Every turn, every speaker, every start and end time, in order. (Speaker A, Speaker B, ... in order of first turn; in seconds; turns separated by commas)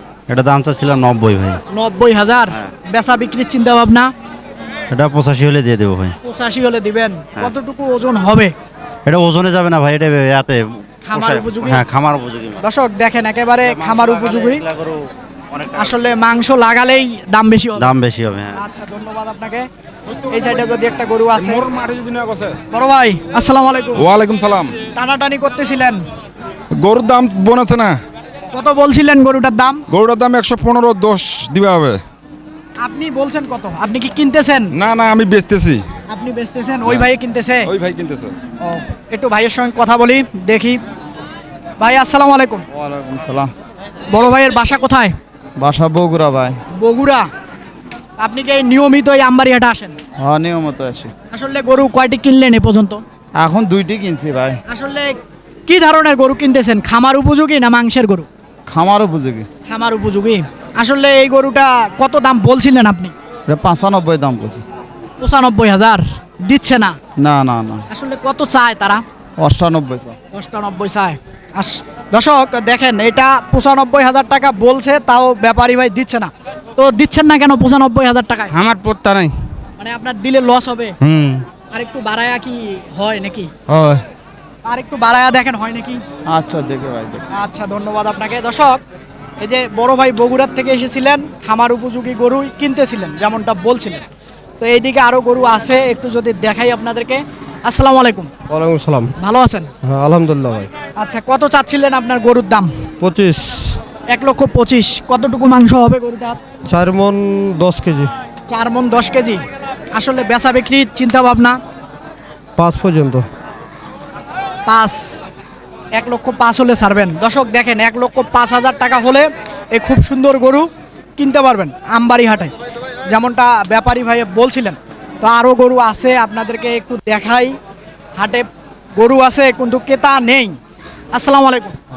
Speaker A: 0.3-1.6, Speaker B: 1.7-4.1, Speaker A: 4.9-6.1, Speaker B: 6.2-8.5, Speaker A: 9.1-10.6, Speaker B: 11.1-11.8, Speaker A: 11.2-12.6, Speaker B: 12.6-14.6, Speaker B: 15.8-17.9, Speaker A: 17.8-18.6, Speaker B: 18.6-19.7, Speaker B: 20.3-21.6, Speaker C: 21.4-22.6, Speaker B: 22.7-24.0, Speaker C: 24.0-24.8, Speaker B: 25.0-26.0, Speaker C: 26.8-27.9, Speaker B: 28.5-29.8, Speaker C: 29.9-32.0, Speaker B: 32.8-34.7, Speaker C: 34.8-35.8, Speaker B: 36.1-37.7, Speaker C: 37.7-38.3, Speaker B: 38.7-40.8, Speaker B: 41.8-42.6, Speaker D: 42.7-43.5, Speaker B: 44.1-45.1, Speaker D: 45.6-46.6, Speaker B: 46.8-47.3, Speaker B: 48.2-50.0, Speaker D: 50.2-51.1, Speaker B: 51.3-53.0, Speaker D: 53.4-54.6, Speaker B: 54.7-58.3, Speaker D: 58.7-59.5, Speaker B: 59.7-63.1, Speaker D: 63.5-64.6, Speaker B: 65.2-67.0, Speaker D: 67.2-67.8, Speaker B: 67.9-69.0, Speaker D: 69.4-70.1, Speaker B: 70.3-78.5, Speaker B: 79.8-81.0, Speaker B: 81.7-83.5, Speaker B: 84.7-86.0, Speaker D: 86.3-87.2, Speaker B: 87.3-88.8, Speaker B: 89.4-94.0, Speaker B: 94.6-98.3, Speaker E: 98.5-99.0, Speaker B: 99.2-99.7, Speaker E: 99.9-100.6, Speaker B: 101.0-102.7, Speaker E: 103.0-103.4, Speaker B: 104.1-106.4, Speaker E: 106.7-108.1, Speaker B: 108.5-109.4, Speaker B: 110.0-111.6, Speaker E: 112.6-113.2, Speaker B: 114.7-115.2, Speaker B: 116.0-122.5, Speaker B: 123.1-127.5, Speaker B: 128.2-130.6, Speaker B: 131.1-131.8